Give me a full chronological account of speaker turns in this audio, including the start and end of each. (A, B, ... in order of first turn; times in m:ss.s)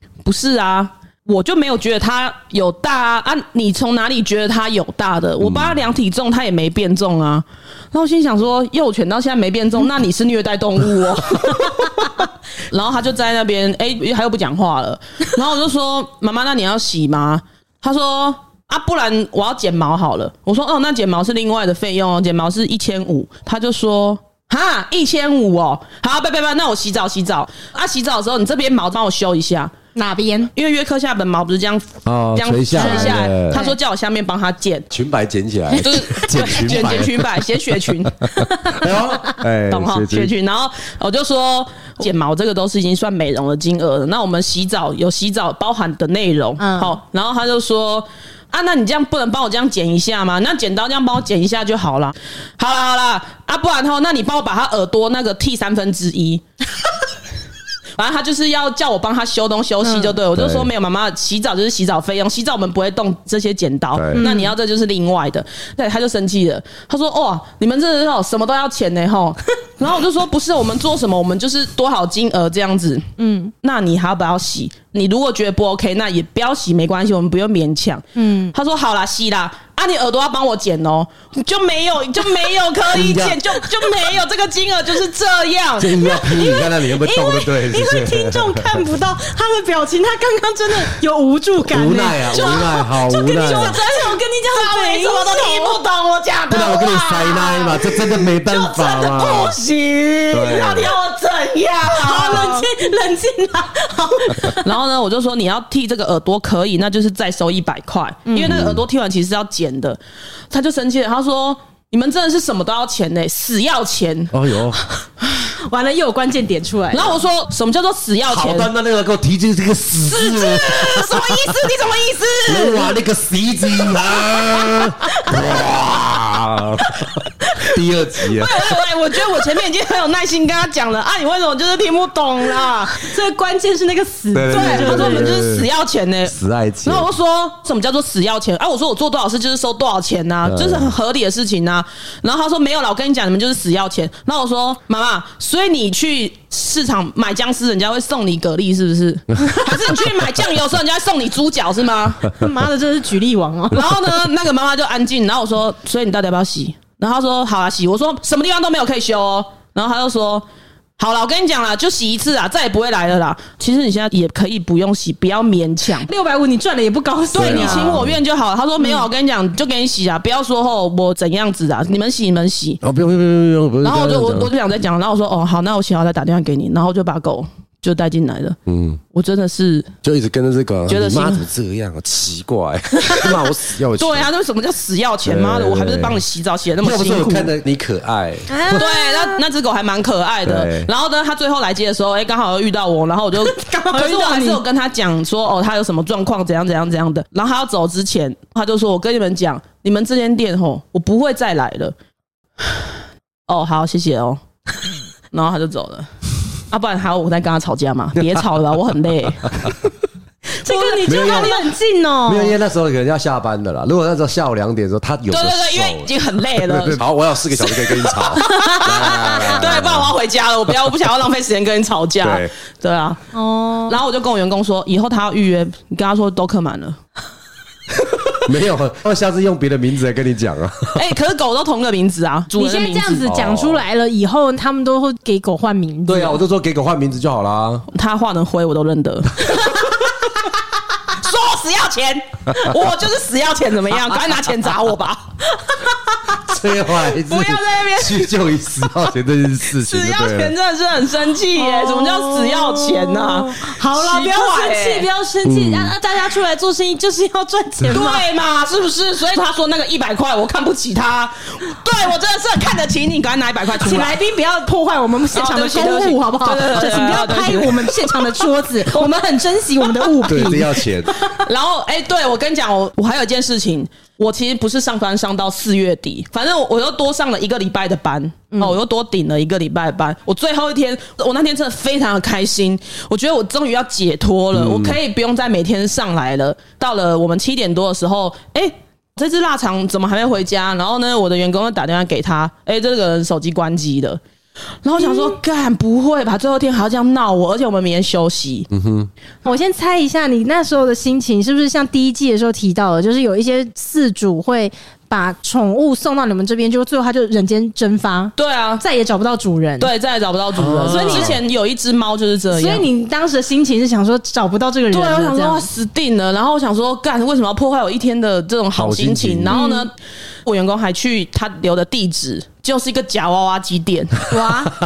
0:00.2-0:29.7 A
0:05.4-0:05.8 B
0:30.0-0:30.5 C
0:30.6-0:34.9 A
0:32.0-0:33.6 B
0:32.8-0:33.8 C
0:34.9-0:37.3 B
0:35.7-0:38.2 A
0:38.2-0:40.3 B
0:39.7-0:56.4 A
0:46.6-0:47.0 C
0:58.0-1:13.1 A
0:59.8-1:00.2 C
1:00.3-1:00.7 B
1:04.0-1:04.2 B
1:04.2-1:04.5 C
1:13.2-1:13.5 C
1:13.6-1:26.1 A
1:18.2-1:18.5 C
1:22.9-1:23.4 B
1:25.8-1:28.8 B
1:26.2-1:35.8 C
1:31.6-1:33.8 B
1:32.3-1:32.8 A
1:33.3-1:42.7 A
1:36.5-1:39.6 B
1:40.3-1:40.9 B
1:41.9-1:44.7 C
1:44.5-1:50.0 A
1:48.3-1:48.6 C
1:48.4-1:48.8 B
1:50.5-1:54.3 A
1:54.3-1:54.8 B
1:55.6-1:57.2 C
1:56.9-1:58.7 A
1:58.3-2:01.6 B
2:00.1-2:03.0 A
2:02.5-2:08.7 B
2:08.3-2:13.1 A
2:12.9-2:15.4 C
2:14.3-2:15.7 B
2:14.5-2:32.3 A
2:16.2-2:17.1 B
2:20.4-2:20.9 B
2:32.3-2:33.8 C
2:33.7-2:40.5 A
2:41.0-2:46.1 A
2:46.1-2:48.0 C
2:47.3-2:48.2 B
2:47.3-2:52.8 A
2:48.8-2:49.0 C
2:52.8-2:54.5 B
2:53.8-2:58.6 A
2:58.7-2:59.0 B
2:59.1-2:59.9 A
3:00.0-3:04.3 B
3:00.9-3:01.4 A
3:03.0-3:03.4 A
3:04.0-3:07.5 A
3:05.2-3:06.2 B
3:06.8-3:08.8 B
3:08.5-3:09.4 C
3:08.7-3:21.9 A
3:10.4-3:10.9 B
3:13.4-3:14.6 C
3:23.5-3:24.4 A
3:25.3-3:26.1 A
3:26.7-3:29.8 A
3:30.6-3:32.6 C
3:30.6-3:31.6 A
3:31.0-3:31.6 B
3:32.3-3:36.1 B
3:35.3-3:37.0 A
3:36.6-3:40.1 B
3:37.6-3:43.2 A
3:38.4-3:39.6 C
3:42.2-3:42.5 B
3:43.3-3:44.0 C
3:43.9-3:47.0 A
3:48.4-3:51.0 B
3:50.9-3:53.3 A
3:52.6-3:56.4 C
3:53.3-3:53.8 B
3:56.1-3:57.9 B
3:57.9-4:00.1 A
4:01.1-4:05.3 A
4:06.5-4:10.5 B
4:07.1-4:08.3 A
4:09.7-4:15.1 A
4:11.6-4:18.3 C
4:15.4-4:15.9 B
4:17.9-4:24.2 A
4:23.8-4:31.4 C
4:25.3-4:29.2 A
4:30.2-4:31.1 B
4:31.3-4:54.2 A
4:44.5-4:45.0 B
4:54.8-4:58.7 A
4:55.0-4:55.3 C
4:58.7-4:59.1 B
4:59.4-5:09.9 C
5:08.4-5:08.8 A
5:09.8-5:12.9 A
5:10.6-5:11.4 B
5:10.9-5:11.3 C
5:12.5-5:15.7 C
5:14.9-5:19.9 A
5:18.8-5:19.6 B
5:19.5-5:19.9 C
5:20.5-5:24.4 A
5:24.3-5:24.7 C